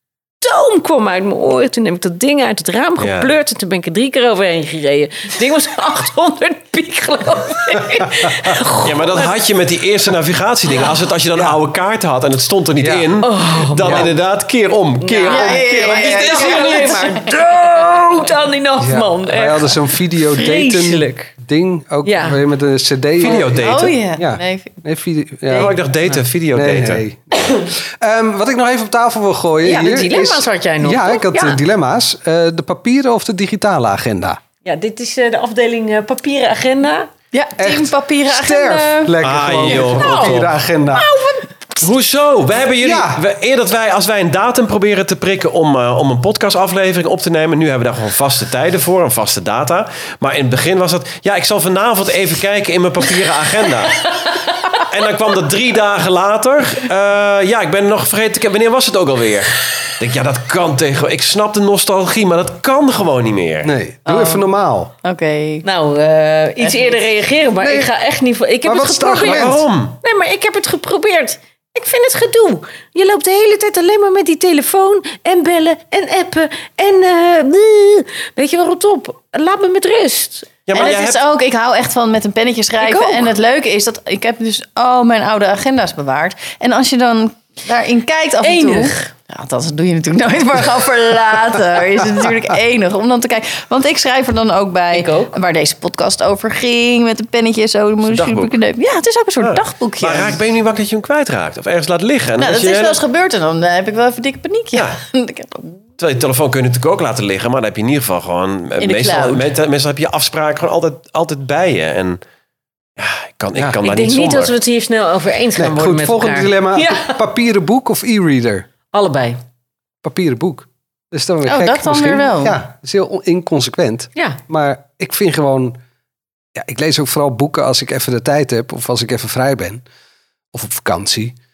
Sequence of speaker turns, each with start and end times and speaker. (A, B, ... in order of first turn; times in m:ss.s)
0:00.4-0:09.3 A
0:03.0-0:03.3 B
0:08.8-0:17.1 B
0:12.8-0:13.1 C
0:13.2-0:14.1 A
0:13.8-0:14.1 C
0:15.0-0:21.3 A
0:15.3-0:17.3 D
0:18.8-0:25.8 C
0:22.0-0:22.4 A
0:23.2-0:24.0 B
0:23.2-0:24.8 D
0:25.5-0:27.0 B
0:26.5-0:34.4 C
0:29.6-0:31.6 A
0:34.6-0:37.1 A
0:37.3-0:39.2 D
0:37.6-0:41.1 C
0:39.2-0:40.5 B
0:40.0-0:41.8 A
0:41.8-1:03.7 B
0:42.8-0:43.2 C
1:03.6-1:04.9 C
1:04.0-1:04.4 D
1:05.0-1:05.6 D
1:05.6-1:20.9 A
1:06.6-1:07.0 D
1:07.6-1:07.9 C
1:08.6-1:09.6 C
1:09.2-1:10.0 B
1:20.6-1:21.2 B
1:20.7-1:40.4 D
1:22.8-1:23.3 A
1:28.4-1:29.1 A
1:34.9-1:35.4 A
1:38.0-1:38.5 B
1:39.4-1:43.0 B
1:42.4-1:45.8 D
1:44.7-1:45.0 B
1:46.0-1:52.2 B
1:48.8-1:49.4 D
1:53.0-1:54.5 B
1:53.8-1:57.2 A
1:55.6-1:58.6 C
1:58.9-1:59.4 A
2:00.0-2:05.8 C
2:01.4-2:02.6 D
2:06.6-2:09.8 C
2:10.5-2:11.4 C